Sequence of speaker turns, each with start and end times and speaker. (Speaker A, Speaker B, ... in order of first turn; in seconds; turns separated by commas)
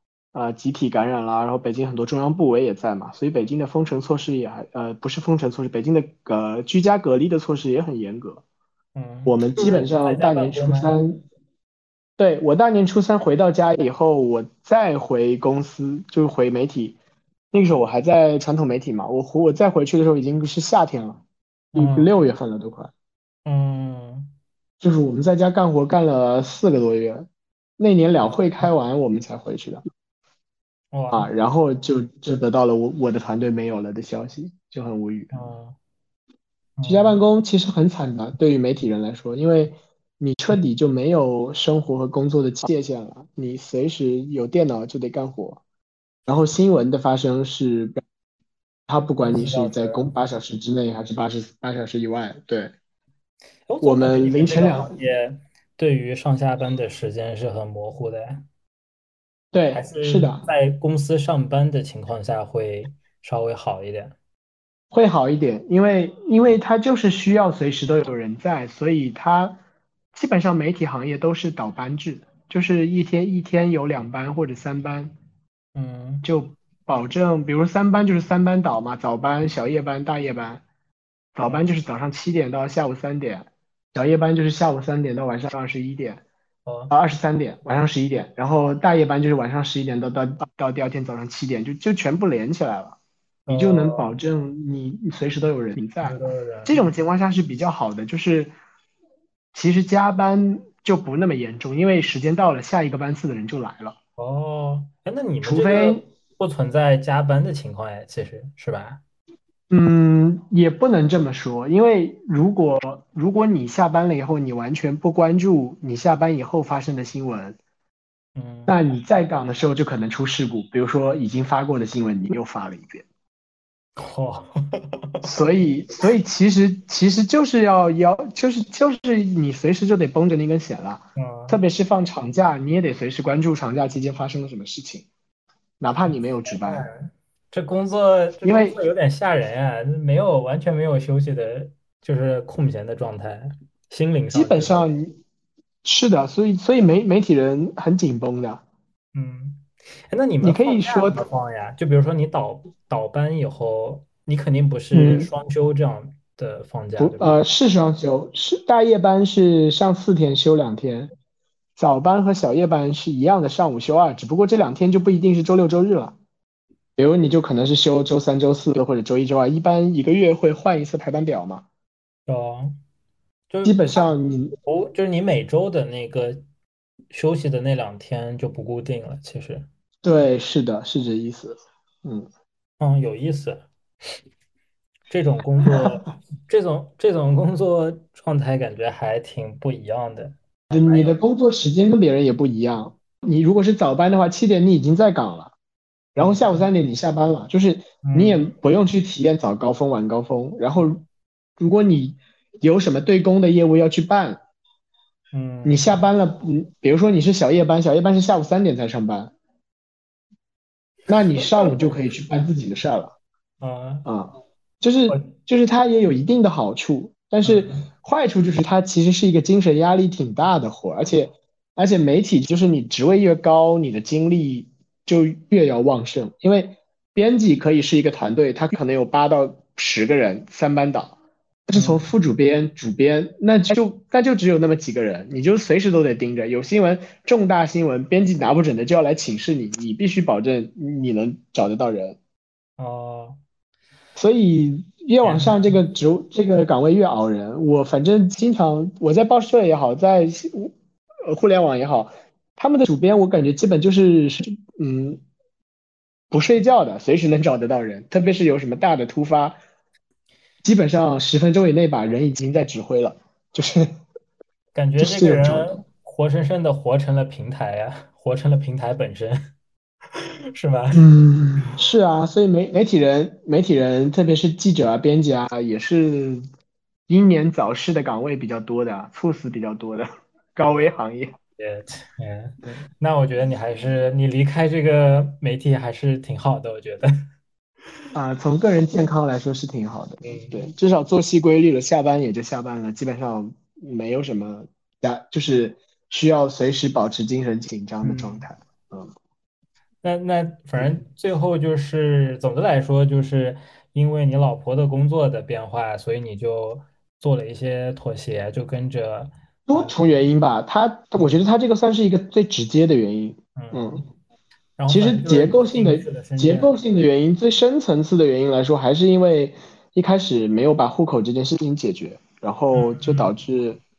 Speaker A: 0.3-8.4, Speaker B: 8.9-10.9, Speaker A: 9.2-11.2, Speaker A: 12.2-17.0, Speaker A: 17.5-21.2, Speaker B: 21.7-22.1, Speaker A: 21.7-22.9, Speaker B: 23.4-24.3, Speaker A: 24.8-27.3, Speaker A: 27.8-29.8, Speaker B: 30.9-31.3, Speaker A: 31.1-35.3, Speaker B: 35.3-35.8, Speaker B: 36.8-37.2, Speaker A: 36.8-45.6, Speaker A: 46.3-48.0, Speaker A: 48.9-52.7, Speaker B: 49.2-50.1, Speaker B: 53.7-58.4, Speaker A: 53.8-54.9, Speaker A: 59.5-60.4, Speaker B: 59.7-64.1, Speaker A: 64.9-69.6, Speaker A: 70.1-75.1, Speaker B: 75.7-76.2, Speaker A: 76.2-80.6, Speaker A: 81.3-86.2, Speaker B: 86.7-86.9, Speaker A: 86.9-93.0, Speaker B: 93.5-94.1, Speaker A: 93.5-98.5, Speaker B: 96.0-96.8, Speaker A: 99.5-104.0, Speaker B: 104.2-109.0, Speaker A: 105.4-106.1, Speaker A: 109.7-117.6, Speaker B: 118.3-118.7, Speaker A: 118.7-123.0, Speaker B: 124.0-125.3, Speaker A: 125.2-135.1, Speaker B: 131.2-131.6, Speaker A: 135.8-136.9, Speaker B: 136.1-144.8, Speaker A: 138.4-138.8, Speaker A: 144.3-145.2, Speaker A: 145.8-148.6, Speaker B: 149.1-157.4, Speaker A: 150.4-151.2, Speaker A: 154.9-155.3, Speaker A: 157.0-161.1, Speaker A: 161.8-166.1, Speaker A: 167.0-171.6, Speaker B: 172.3-172.8, Speaker B: 173.5-174.1, Speaker A: 173.6-174.5, Speaker B: 174.6-176.4, Speaker B: 177.1-179.7, Speaker A: 180.0-182.3, Speaker B: 182.8-183.7, Speaker B: 185.1-191.2, Speaker A: 190.7-195.5, Speaker A: 196.1-201.0, Speaker B: 196.2-196.6, Speaker B: 198.0-198.5, Speaker A: 201.6-204.4, Speaker B: 205.3-206.0, Speaker A: 205.6-209.3, Speaker A: 211.1-213.1, Speaker B: 211.4-211.7, Speaker B: 213.6-214.1, Speaker A: 214.1-231.2, Speaker B: 217.4-217.8, Speaker A: 231.7-242.2, Speaker B: 231.7-232.1, Speaker B: 242.8-243.4, Speaker A: 244.2-250.7, Speaker B: 245.2-245.8, Speaker A: 251.2-255.2, Speaker A: 256.3-259.6, Speaker A: 260.6-263.9, Speaker B: 264.7-269.4, Speaker A: 265.0-265.8, Speaker B: 270.2-271.0, Speaker A: 270.9-276.4, Speaker A: 277.1-281.4, Speaker B: 281.6-287.1, Speaker A: 288.1-299.1, Speaker B: 290.2-290.6, Speaker B: 298.0-298.4, Speaker B: 300.0-309.9, Speaker A: 309.7-314.0, Speaker B: 313.6-314.0, Speaker B: 314.8-316.7, Speaker A: 314.9-323.8, Speaker B: 322.7-323.3